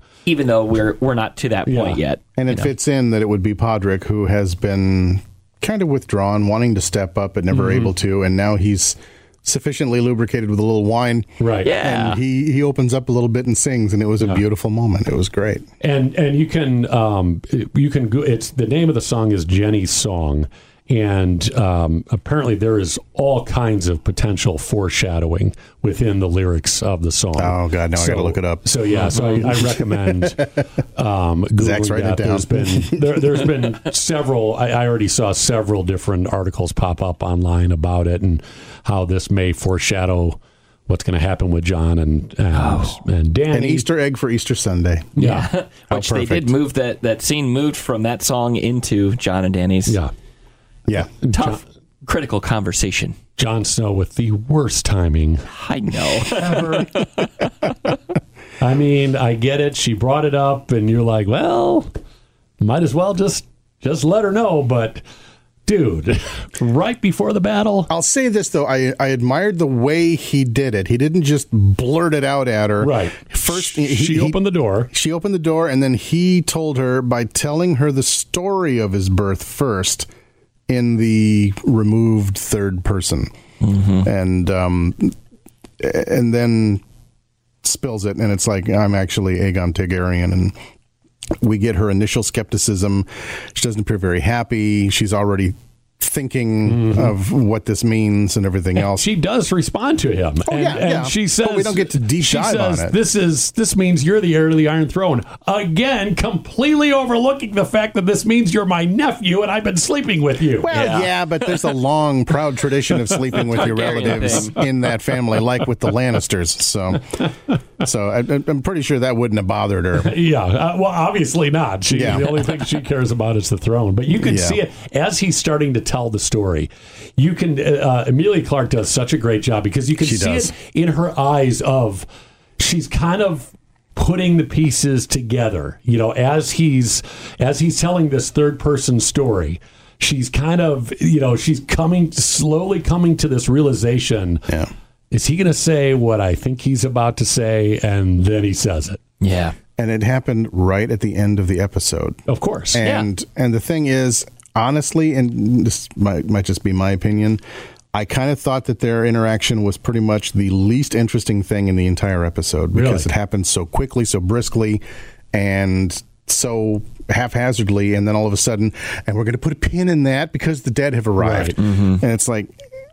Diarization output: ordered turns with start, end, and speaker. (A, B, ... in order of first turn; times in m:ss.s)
0:00.3-0:02.7 A
0:01.7-0:02.0 B
0:02.4-0:15.7 C
0:07.5-0:07.9 B
0:11.4-0:11.7 B
0:11.6-0:12.2 A
0:15.8-0:43.9 B
0:27.4-0:30.5 C
0:31.6-0:33.5 C
0:42.5-0:43.0 A
0:43.5-0:45.2 C
0:45.2-0:45.5 B
0:45.2-0:50.0 A
0:45.9-0:46.5 C
0:49.9-0:50.1 B
0:51.2-0:51.6 B
0:51.3-0:53.2 A
0:53.4-0:55.5 B
0:55.5-0:57.5 A
0:56.2-0:57.0 B
0:58.6-1:01.9 B
1:02.6-1:05.0 B
1:05.7-1:07.9 B
1:07.9-1:20.1 C
1:12.8-1:14.9 B
1:20.7-1:23.3 C
1:23.6-1:24.1 A
1:24.0-1:25.2 C
1:25.8-1:26.8 C
1:27.6-1:30.6 C
1:31.4-1:39.1 C
1:36.7-1:37.1 B
1:38.8-1:50.8 B
1:40.4-1:43.0 C
1:50.6-1:57.3 C
1:50.7-1:51.1 A
1:53.4-1:54.6 A
1:54.2-1:54.6 B
1:57.8-2:00.2 C
2:00.0-2:12.1 B
2:01.9-2:02.2 C
2:04.2-2:04.6 C
2:10.0-2:10.5 C
2:12.6-2:24.5 B
2:25.1-2:29.0 B
2:29.2-2:29.6 A
2:29.8-2:32.2 C
2:32.3-2:32.8 B
2:32.7-2:37.4 C
2:32.8-2:33.1 A
2:37.9-2:44.8 C
2:42.7-2:43.1 B
2:45.3-2:52.6 C
2:51.2-2:51.6 B
2:51.6-2:52.0 A